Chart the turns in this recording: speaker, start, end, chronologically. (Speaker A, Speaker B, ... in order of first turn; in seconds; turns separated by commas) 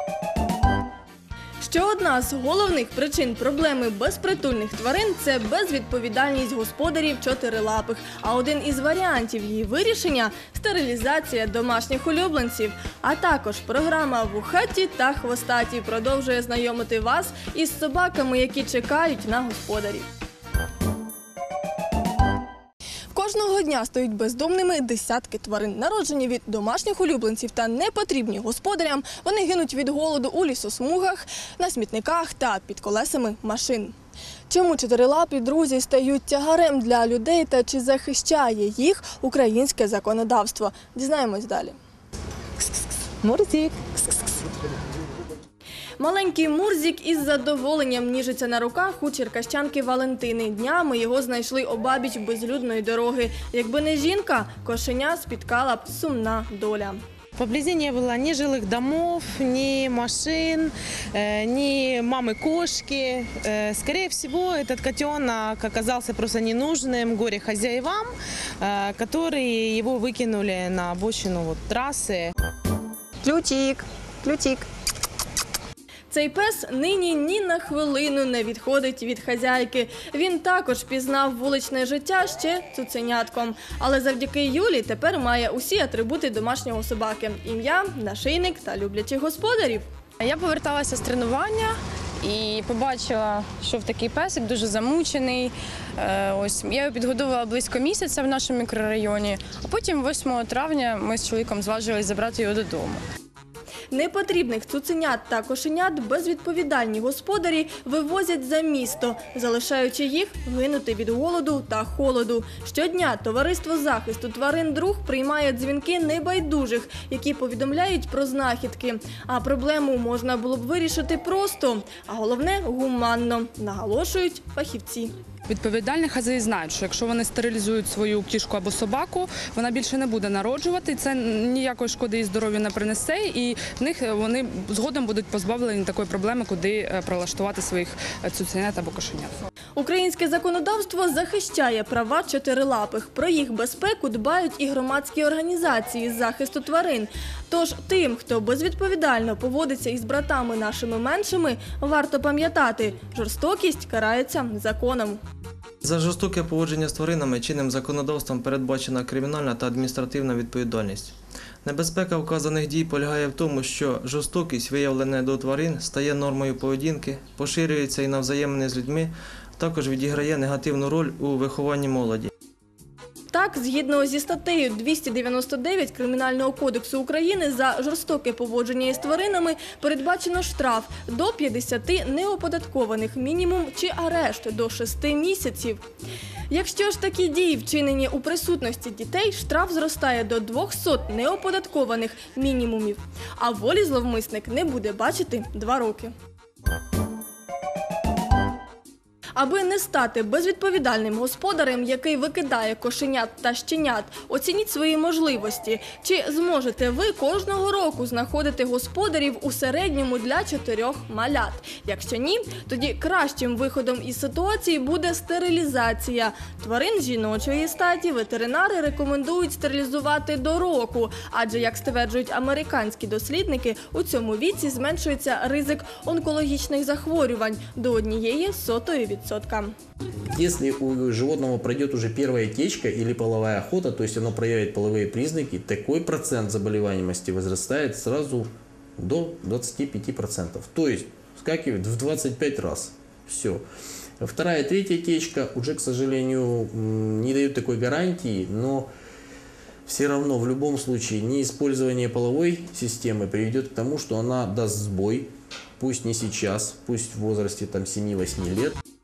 Speaker A: 1.6-20.1, Speaker A: 23.1-33.9, Speaker A: 34.5-41.8, Speaker B: 43.2-44.3, Speaker A: 46.0-57.0, Speaker B: 57.4-72.3, Speaker A: 76.1-89.8, Speaker C: 90.2-103.0, Speaker A: 103.9-125.1, Speaker D: 125.5-139.4, Speaker A: 139.8-155.2, Speaker E: 155.8-172.3, Speaker A: 173.3-185.8, Speaker A: 186.5-196.1, Speaker A: 199.4-229.7, Speaker F: 230.3-243.6, Speaker F: 244.2-248.9, Speaker F: 249.9-258.8